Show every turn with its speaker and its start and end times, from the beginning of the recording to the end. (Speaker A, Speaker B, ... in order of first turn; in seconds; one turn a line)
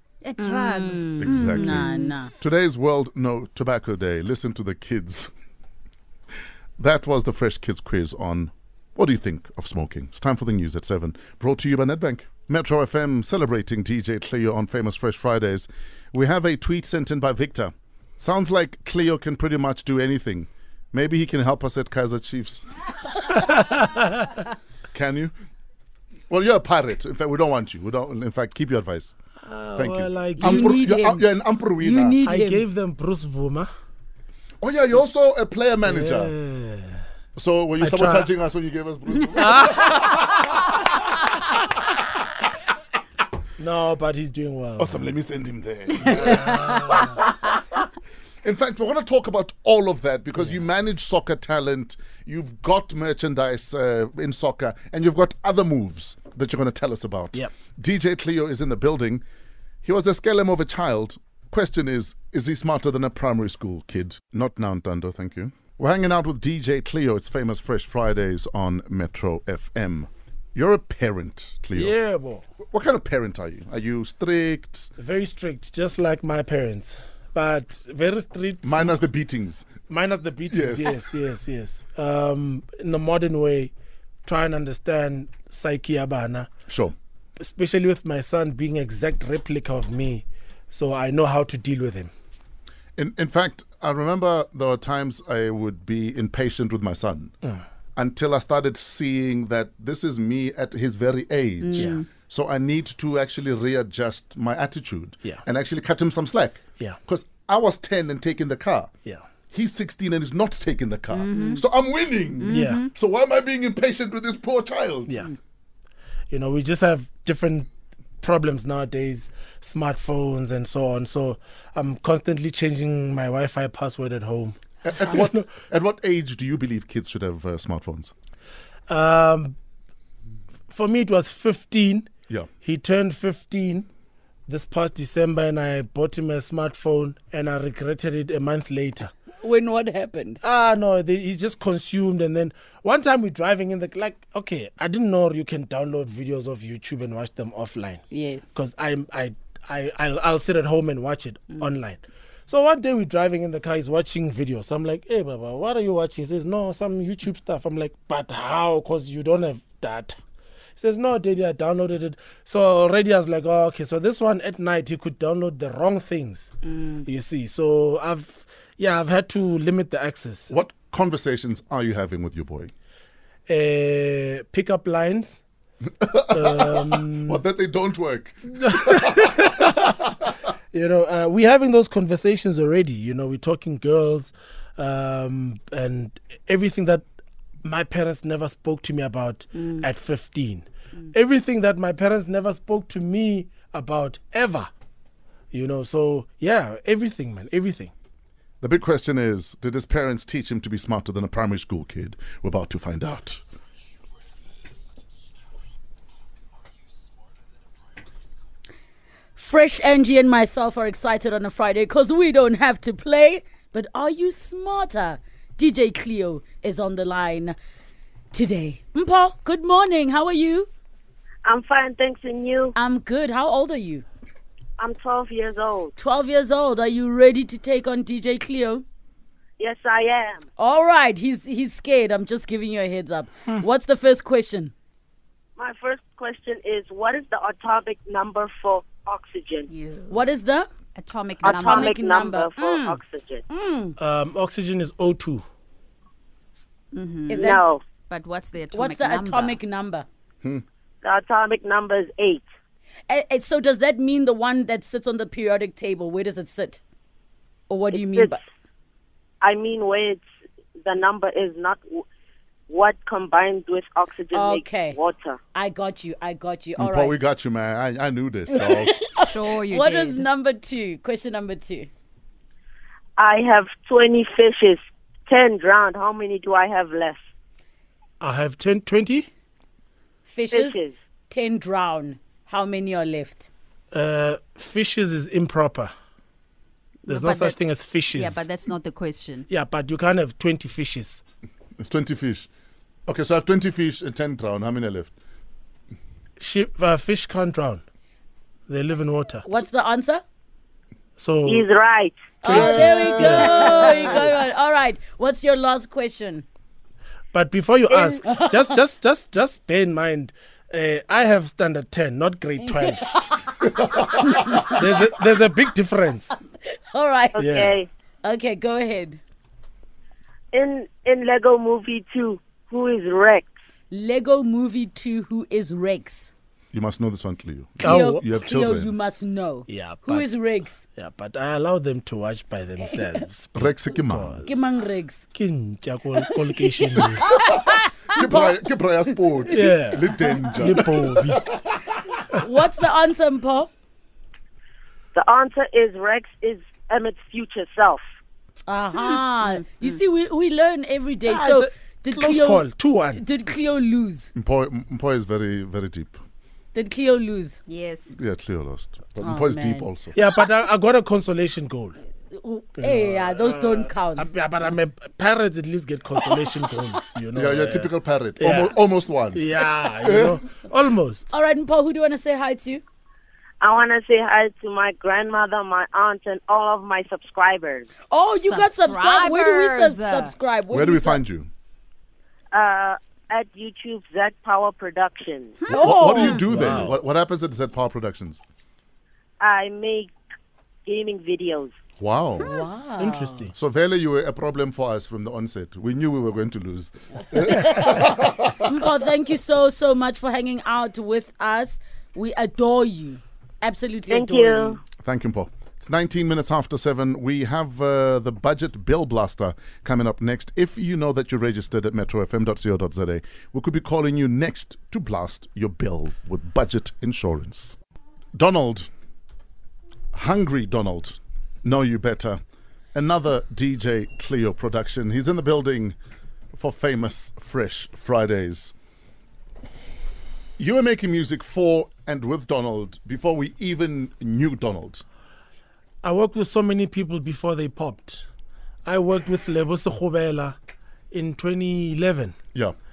Speaker A: 0.2-2.3
Speaker B: 0.4-2.1
Speaker C: 1.2-1.8
Speaker C: 2.4-5.3
Speaker C: 6.8-22.6
Speaker D: 23.3-24.3
Speaker C: 24.9-25.3
Speaker C: 26.3-29.2
Speaker D: 29.4-30.8
Speaker C: 29.8-32.2
Speaker A: 30.4-31.3
Speaker A: 31.8-32.6
Speaker D: 32.2-33.7
Speaker C: 34.6-36.3
Speaker D: 35.9-37.0
Speaker C: 37.4-40.9
Speaker D: 37.8-38.3
Speaker D: 39.3-40.3
Speaker D: 43.6-45.0
Speaker C: 44.8-47.8
Speaker D: 46.1-47.0
Speaker C: 48.4-59.2
Speaker C: 59.8-72.0
Speaker D: 71.7-72.4
Speaker C: 72.7-74.9
Speaker D: 75.0-79.0
Speaker C: 78.6-79.7
Speaker D: 79.9-83.7
Speaker C: 80.5-81.0
Speaker D: 84.2-86.5
Speaker C: 86.7-87.0
Speaker D: 87.4-92.1
Speaker C: 93.0-97.3
Speaker C: 98.0-108.9
Speaker B: 101.6-102.1
Speaker C: 109.5-115.3
Speaker B: 111.1-111.7
Speaker B: 112.4-112.9
Speaker D: 112.5-112.8
Speaker D: 115.1-115.3
Speaker D: 116.3-117.7
Speaker D: 118.2-125.4
Speaker C: 124.8-128.1
Speaker D: 128.9-129.6
Speaker D: 130.7-132.1
Speaker D: 132.6-133.9
Speaker D: 134.5-139.1
Speaker A: 139.4-140.4
Speaker D: 140.4-148.0
Speaker A: 148.1-148.4
Speaker D: 148.5-160.2
Speaker D: 160.8-166.5
Speaker D: 167.1-170.5
Speaker C: 170.5-172.7
Speaker D: 173.5-175.4
Speaker C: 176.0-180.1
Speaker D: 176.3-177.4
Speaker D: 178.6-179.9
Speaker D: 180.7-187.1
Speaker D: 187.6-194.7
Speaker D: 195.5-197.9
Speaker C: 198.6-203.4
Speaker A: 209.4-217.6
Speaker A: 218.3-220.7
Speaker E: 221.4-222.7
Speaker A: 222.8-224.1
Speaker E: 224.8-225.9
Speaker A: 226.0-228.8
Speaker E: 229.6-230.4
Speaker A: 230.6-234.7
Speaker E: 235.6-239.7
Speaker B: 239.7-240.2
Speaker A: 240.1-240.7
Speaker B: 241.0-242.0
Speaker A: 241.4-242.9
Speaker E: 241.4-243.4
Speaker B: 243.6-243.9
Speaker D: 244.0-245.4
Speaker B: 246.9-249.6
Speaker A: 247.3-247.6
Speaker E: 247.3-247.8
Speaker A: 248.7-250.1
Speaker E: 251.0-252.4
Speaker A: 253.1-256.8
Speaker A: 257.7-258.4
Speaker E: 257.9-258.4
Speaker E: 259.4-260.2
Speaker E: 260.8-262.1
Speaker E: 262.7-265.4
Speaker A: 264.3-265.0
Speaker A: 265.5-267.2
Speaker C: 266.8-268.9
Speaker A: 268.5-271.9
Speaker B: 269.2-270.2
Speaker E: 273.2-277.2
Speaker D: 278.2-279.3
Speaker A: 280.3-283.5
Speaker E: 280.5-280.9
Speaker D: 283.9-285.9
Speaker B: 287.1-287.6
Speaker D: 287.1-288.5
Speaker B: 288.1-289.5
Speaker D: 289.5-291.2
Speaker C: 291.8-292.5
Speaker C: 293.1-295.1
Speaker D: 296.4-297.8
Speaker D: 298.7-299.5
Speaker A: 299.5-300.2
Speaker D: 301.2-301.7
Speaker E: 301.5-302.7
Speaker A: 302.4-306.4
Speaker D: 302.4-303.8
Speaker C: 302.5-303.6
Speaker D: 307.3-313.1
Speaker A: 308.2-308.6
Speaker A: 312.7-313.5
Speaker C: 313.7-314.6
Speaker A: 314.3-314.7
Speaker D: 314.7-316.4
Speaker A: 316.7-317.4
Speaker E: 317.4-317.9
Speaker D: 317.4-317.8
Speaker A: 318.2-319.2
Speaker E: 320.5-323.5
Speaker A: 323.9-326.3
Speaker C: 326.7-328.9
Speaker D: 327.8-328.2
Speaker A: 327.8-330.8
Speaker D: 329.7-330.3
Speaker D: 331.0-334.6
Speaker C: 333.5-334.4
Speaker A: 334.5-335.2
Speaker D: 335.3-337.3
Speaker A: 336.9-338.6
Speaker C: 337.3-337.6
Speaker C: 338.1-342.0
Speaker D: 339.5-341.4
Speaker A: 342.4-343.7
Speaker E: 345.1-348.0
Speaker A: 348.7-354.3
Speaker B: 349.0-350.0
Speaker D: 351.3-353.2
Speaker C: 354.4-356.2
Speaker A: 356.8-357.6
Speaker B: 357.7-358.2
Speaker C: 358.1-360.1
Speaker A: 359.2-359.9
Speaker D: 360.1-362.0
Speaker A: 362.3-364.3
Speaker D: 362.8-368.8
Speaker C: 367.3-370.4
Speaker D: 369.3-371.3
Speaker A: 371.3-372.8
Speaker E: 373.6-377.9
Speaker A: 378.1-381.2
Speaker B: 378.4-380.3
Speaker C: 380.7-381.5
Speaker E: 382.5-385.6
Speaker B: 385.6-386.4
Speaker C: 385.7-388.4
Speaker A: 385.7-386.4
Speaker D: 386.4-386.9
Speaker E: 389.4-390.1
Speaker E: 390.9-391.7
Speaker C: 392.0-392.5
Speaker A: 392.4-393.4
Speaker D: 393.0-393.5
Speaker C: 393.6-398.7
Speaker A: 397.5-398.1
Speaker A: 398.6-404.8
Speaker E: 404.1-404.8
Speaker C: 405.0-417.8
Speaker C: 418.4-418.9
Speaker C: 420.1-422.4
Speaker C: 422.9-426.0
Speaker C: 426.5-428.7
Speaker C: 430.6-435.0
Speaker D: 436.0-438.2
Speaker D: 438.9-440.6
Speaker D: 441.1-442.4